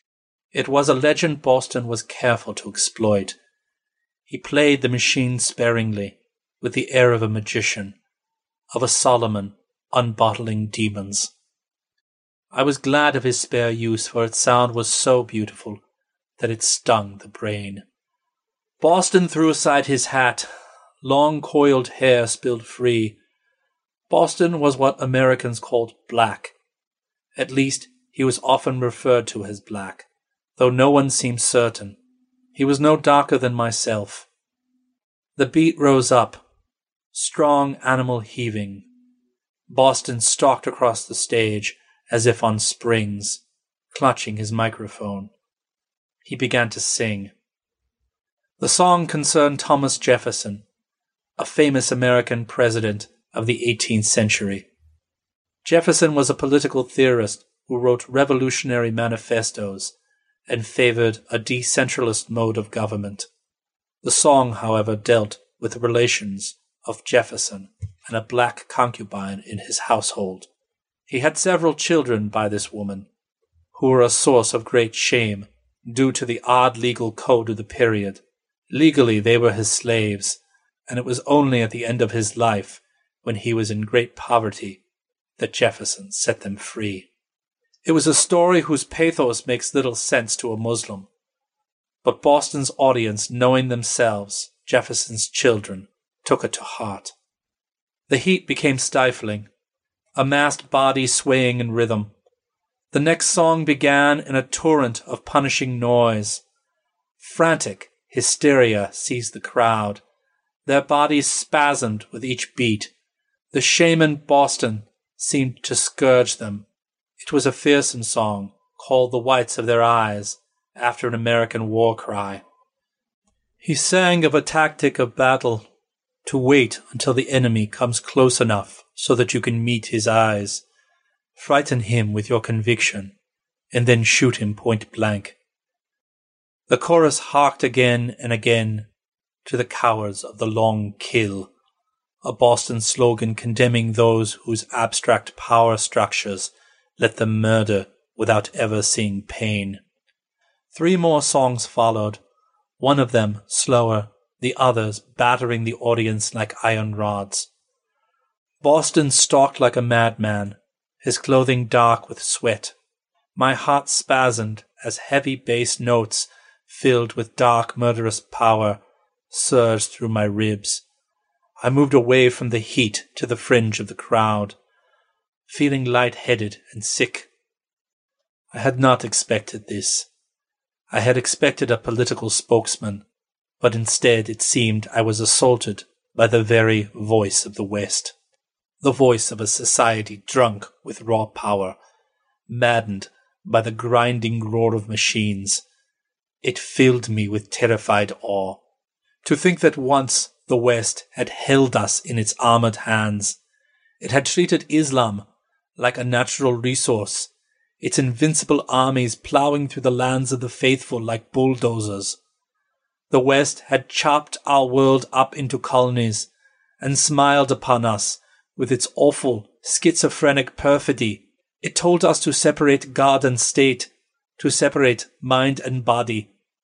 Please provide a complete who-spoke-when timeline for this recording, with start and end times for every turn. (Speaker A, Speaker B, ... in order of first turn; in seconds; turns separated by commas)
Speaker A: 0.5-3.4, Speaker A: 4.3-7.9, Speaker A: 8.7-11.3, Speaker A: 12.5-15.8, Speaker A: 16.4-17.8, Speaker A: 18.8-20.5, Speaker A: 21.0-23.1, Speaker A: 24.1-26.5, Speaker A: 27.4-30.1, Speaker A: 30.6-32.0, Speaker A: 32.5-34.2, Speaker A: 35.4-36.4, Speaker A: 37.1-38.9, Speaker A: 39.7-43.4, Speaker A: 43.9-45.3, Speaker A: 46.2-47.3, Speaker A: 48.6-50.6, Speaker A: 51.4-54.6, Speaker A: 55.6-59.9, Speaker A: 60.5-63.3, Speaker A: 64.0-70.5, Speaker A: 71.1-73.1, Speaker A: 73.7-84.8, Speaker A: 85.4-87.1, Speaker A: 87.8-91.1, Speaker A: 92.0-97.1, Speaker A: 98.1-99.5, Speaker A: 100.2-102.1, Speaker A: 102.9-106.4, Speaker A: 107.2-110.0, Speaker A: 110.7-112.9, Speaker A: 113.5-116.6, Speaker A: 117.2-122.4, Speaker A: 123.6-125.7, Speaker A: 126.2-130.6, Speaker A: 131.4-133.1, Speaker A: 133.7-135.3, Speaker A: 136.7-138.9, Speaker A: 139.4-141.5, Speaker A: 142.2-149.8, Speaker A: 150.7-152.2, Speaker A: 152.8-157.5, Speaker A: 158.6-162.7, Speaker A: 163.3-168.8, Speaker A: 169.3-170.8, Speaker A: 171.6-174.6, Speaker A: 175.5-177.3, Speaker A: 178.5-180.1, Speaker A: 180.9-183.0, Speaker A: 183.6-188.1, Speaker A: 188.8-191.8, Speaker A: 192.5-195.6, Speaker A: 196.4-198.6, Speaker A: 199.2-203.4, Speaker A: 204.0-205.2, Speaker A: 205.8-212.2, Speaker A: 213.1-216.3, Speaker A: 216.8-226.3